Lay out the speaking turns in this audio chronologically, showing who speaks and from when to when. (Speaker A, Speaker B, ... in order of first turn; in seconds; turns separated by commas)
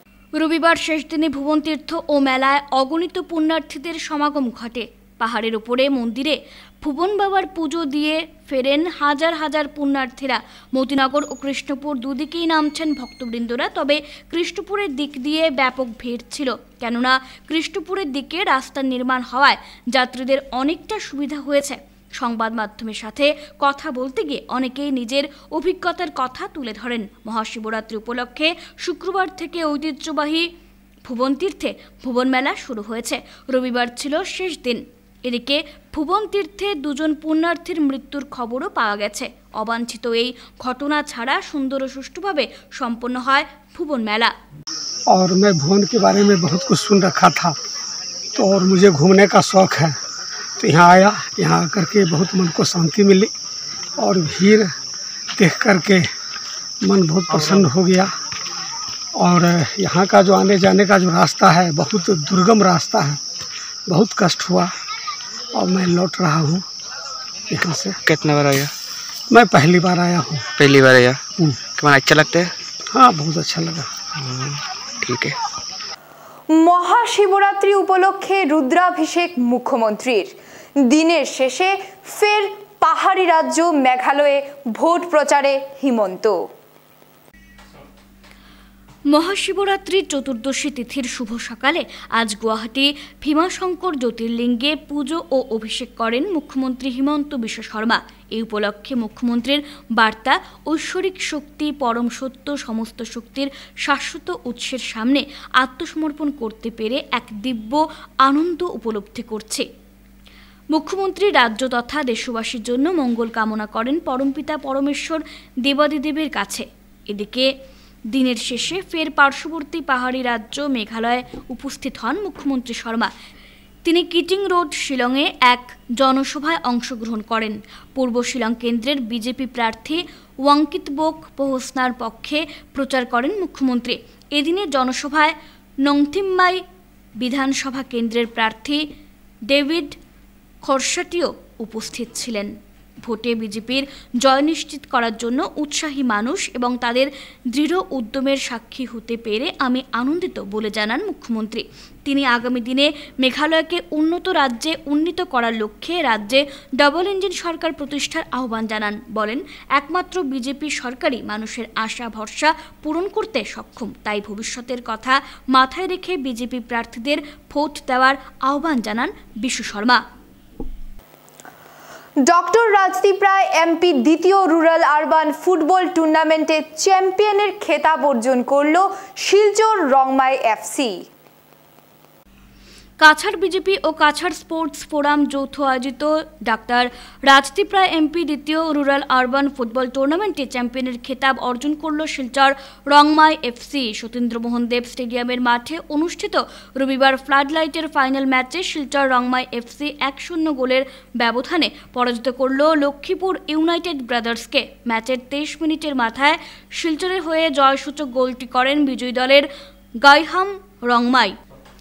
Speaker A: 0.4-30.5, Speaker A: 31.1-44.3, Speaker B: 45.1-47.5, Speaker B: 48.4-49.9, Speaker B: 50.6-53.3, Speaker B: 54.0-54.7, Speaker B: 55.4-56.1, Speaker B: 56.8-58.1, Speaker B: 59.2-63.2, Speaker B: 63.9-64.7, Speaker B: 65.5-66.6, Speaker B: 67.5-68.0, Speaker C: 68.0-68.7, Speaker B: 69.3-70.4, Speaker C: 70.6-71.2, Speaker C: 71.7-72.5, Speaker B: 72.9-73.9, Speaker C: 74.2-75.4, Speaker D: 76.5-80.3, Speaker D: 80.9-86.5, Speaker A: 89.1-109.6, Speaker A: 110.7-117.5, Speaker A: 118.1-123.1, Speaker A: 123.8-136.6, Speaker A: 137.2-138.8, Speaker A: 139.5-139.9, Speaker A: 140.7-142.5, Speaker A: 143.0-170.0, Speaker D: 172.2-181.0, Speaker A: 183.0-209.5, Speaker A: 210.0-211.3